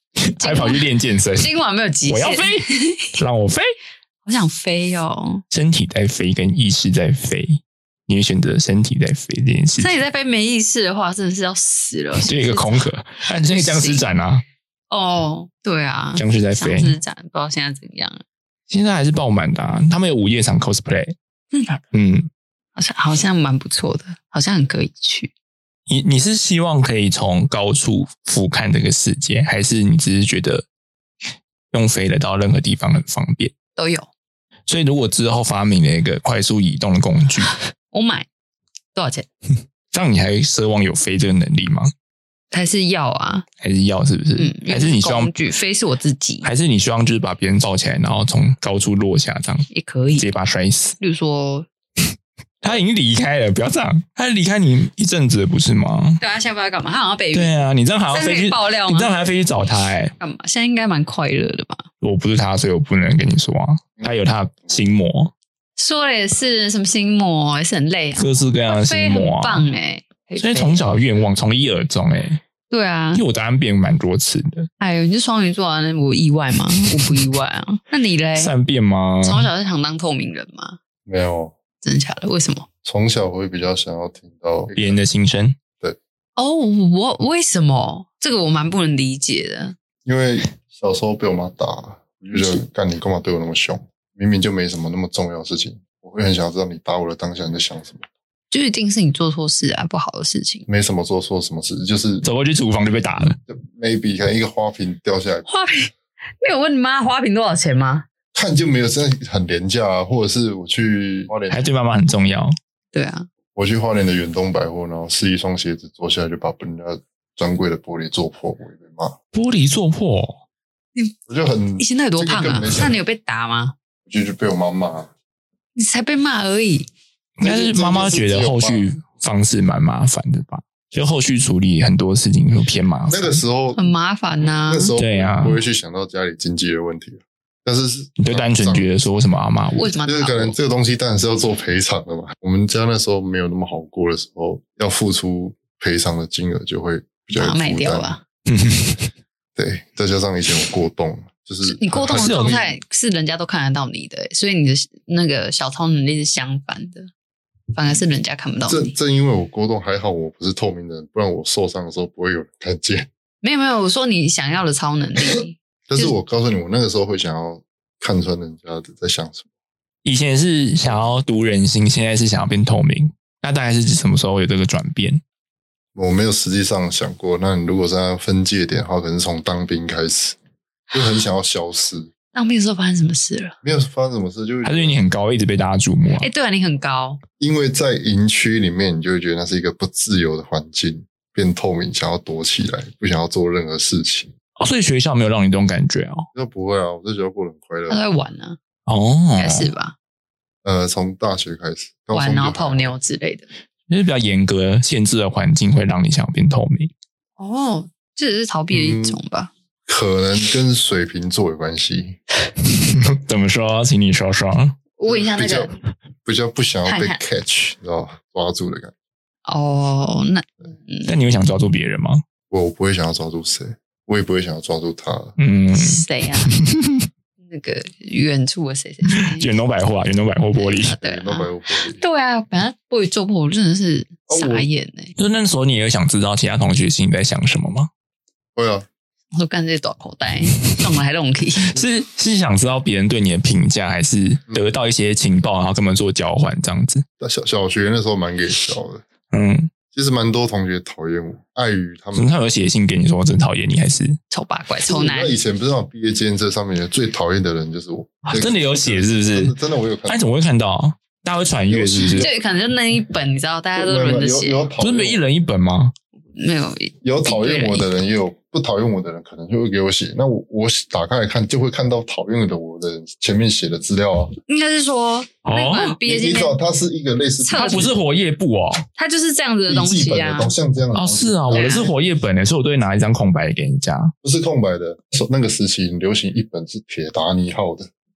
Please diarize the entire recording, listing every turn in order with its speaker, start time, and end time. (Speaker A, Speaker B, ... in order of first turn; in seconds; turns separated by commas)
Speaker A: 0.2-1.5, Speaker B: 0.4-3.2, Speaker A: 2.1-3.7, Speaker B: 4.2-5.4, Speaker A: 5.5-9.9, Speaker B: 9.8-14.0, Speaker A: 12.2-14.4, Speaker B: 14.9-18.2, Speaker A: 16.1-16.9, Speaker A: 18.7-21.1, Speaker B: 21.5-21.8, Speaker A: 21.9-22.3, Speaker B: 22.8-25.3, Speaker A: 25.9-30.6, Speaker A: 31.7-33.5, Speaker B: 33.8-34.1, Speaker A: 34.7-37.6, Speaker B: 37.9-38.3, Speaker B: 38.9-39.3, Speaker A: 39.9-41.9, Speaker B: 42.5-43.5, Speaker A: 43.6-45.3, Speaker B: 44.4-46.5, Speaker A: 46.4-51.0, Speaker B: 49.7-50.3, Speaker B: 51.0-51.7, Speaker A: 52.6-56.2, Speaker B: 56.2-57.5, Speaker A: 57.3-60.1, Speaker B: 58.1-59.1, Speaker B: 60.2-61.8, Speaker A: 62.0-65.3, Speaker B: 65.8-70.9, Speaker A: 68.2-69.7, Speaker A: 70.4-72.4, Speaker B: 72.7-73.2, Speaker A: 73.1-74.7, Speaker B: 74.8-78.5, Speaker A: 78.3-79.5, Speaker B: 79.2-80.8, Speaker C: 81.0-81.5, Speaker B: 81.8-82.7, Speaker C: 82.8-85.0, Speaker A: 84.7-85.6, Speaker B: 86.4-89.8, Speaker C: 90.0-98.1, Speaker B: 98.5-100.7, Speaker C: 100.7-102.2, Speaker A: 102.2-103.4, Speaker C: 103.5-105.5, Speaker B: 105.5-105.9, Speaker B: 106.4-108.0, Speaker C: 108.3-111.7, Speaker A: 111.5-112.5, Speaker B: 112.9-113.3, Speaker C: 113.5-119.2, Speaker A: 119.3-120.4, Speaker C: 121.3-123.0, Speaker B: 121.8-123.8, Speaker C: 124.0-125.1, Speaker B: 125.8-126.9, Speaker A: 127.4-133.4, Speaker C: 127.4-128.9, Speaker C: 133.1-133.8, Speaker B: 133.8-134.9, Speaker C: 134.7-138.9, Speaker A: 135.0-135.6, Speaker A: 138.2-139.9, Speaker B: 139.8-140.6, Speaker C: 140.1-148.1, Speaker B: 147.3-148.2, Speaker A: 148.5-149.1, Speaker C: 149.6-152.7, Speaker B: 151.6-157.1, Speaker A: 152.1-152.6, Speaker B: 157.7-158.9, Speaker C: 158.7-163.1, Speaker B: 163.4-166.1, Speaker C: 165.9-169.4, Speaker A: 170.0-175.2, Speaker C: 170.8-171.1, Speaker C: 175.9-180.3, Speaker C: 180.9-182.1, Speaker B: 182.3-183.6, Speaker C: 183.6-184.9, Speaker A: 184.6-186.3, Speaker B: 186.2-187.2, Speaker C: 187.4-194.3, Speaker A: 194.6-196.3, Speaker C: 196.3-198.0, Speaker B: 197.9-198.6, Speaker A: 198.9-199.7, Speaker B: 199.4-199.9, Speaker C: 200.6-202.9, Speaker B: 202.1-203.5, Speaker A: 203.9-206.9, Speaker B: 207.4-209.5, Speaker C: 208.7-209.2, Speaker C: 209.9-212.2, Speaker A: 212.7-214.8, Speaker B: 214.9-215.7, Speaker C: 215.1-218.9, Speaker B: 216.8-217.2, Speaker B: 219.4-221.1, Speaker A: 221.1-222.2, Speaker C: 222.5-225.3, Speaker A: 225.4-227.1, Speaker B: 225.7-226.5, Speaker B: 227.4-229.5, Speaker A: 229.1-231.0, Speaker B: 230.6-235.1, Speaker C: 230.9-232.0, Speaker C: 234.3-234.7, Speaker A: 235.2-237.9, Speaker C: 238.5-238.9, Speaker B: 239.3-241.8, Speaker A: 241.7-247.1, Speaker C: 247.2-249.0, Speaker A: 249.3-249.7, Speaker C: 249.9-252.3, Speaker A: 252.1-254.2, Speaker B: 254.3-255.3, Speaker C: 254.8-260.2, Speaker A: 258.3-259.5, Speaker A: 260.1-262.3, Speaker C: 261.7-262.3, Speaker B: 262.1-264.6, Speaker C: 263.8-265.2, Speaker A: 264.8-265.9, Speaker B: 266.3-267.9, Speaker C: 267.0-274.3, Speaker B: 274.5-276.6, Speaker A: 275.4-276.0, Speaker C: 276.1-278.0, Speaker B: 277.4-277.9, Speaker A: 277.6-278.8, Speaker B: 278.9-280.5, Speaker C: 279.7-281.9, Speaker A: 280.9-284.1, Speaker B: 281.5-281.9, Speaker C: 284.2-287.9